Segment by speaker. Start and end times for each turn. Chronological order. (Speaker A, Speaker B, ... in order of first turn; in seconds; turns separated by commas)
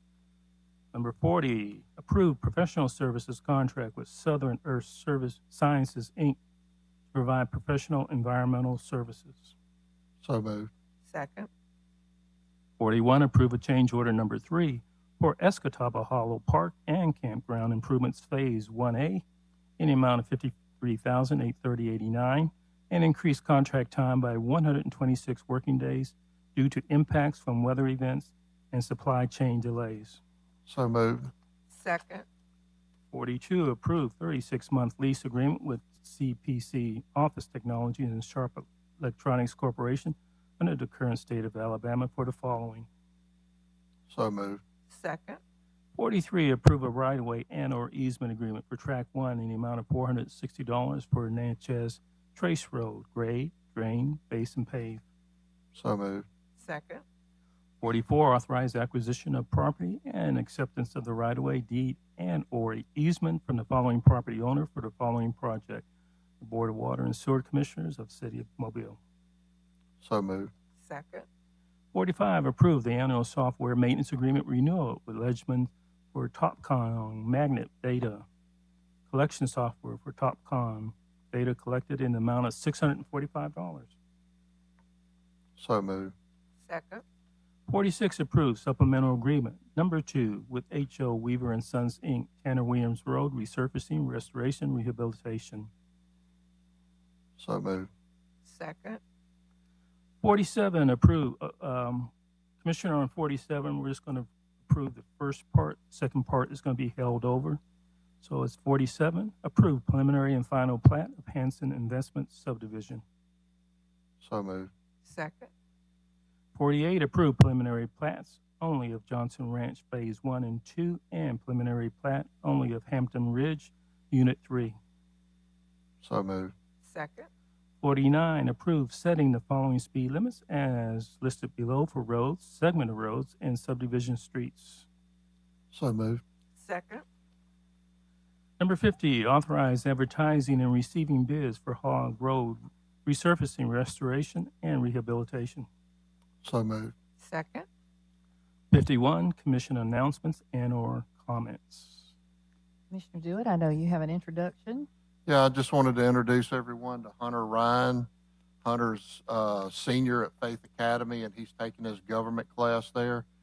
Speaker A: 0.9-6.4, Speaker A: 7.1-9.6, Speaker B: 10.2-10.7, Speaker C: 11.1-11.5, Speaker A: 12.8-19.2, Speaker A: 19.8-30.2, Speaker B: 30.7-31.3, Speaker C: 31.7-32.2, Speaker A: 33.1-42.9, Speaker B: 44.1-44.6, Speaker C: 44.9-45.4, Speaker A: 45.9-55.0, Speaker B: 55.7-56.2, Speaker C: 56.6-57.0, Speaker A: 57.8-65.8, Speaker A: 66.4-69.0, Speaker B: 70.0-70.5, Speaker C: 70.8-71.2, Speaker A: 71.9-78.2, Speaker A: 79.1-83.9, Speaker B: 85.6-86.1, Speaker C: 86.6-87.0, Speaker A: 87.7-95.7, Speaker B: 97.4-97.9, Speaker C: 98.5-99.0, Speaker A: 100.2-107.6, Speaker A: 108.2-113.0, Speaker B: 114.2-114.7, Speaker C: 115.1-115.5, Speaker A: 116.5-124.8, Speaker B: 126.0-126.5, Speaker C: 126.8-127.3, Speaker A: 127.8-134.9, Speaker B: 135.7-136.2, Speaker C: 136.6-137.0, Speaker A: 138.6-145.7, Speaker B: 146.4-146.9, Speaker C: 147.2-147.7, Speaker A: 148.7-152.1, Speaker D: 152.9-154.9, Speaker B: 155.2-158.1, Speaker B: 158.6-163.2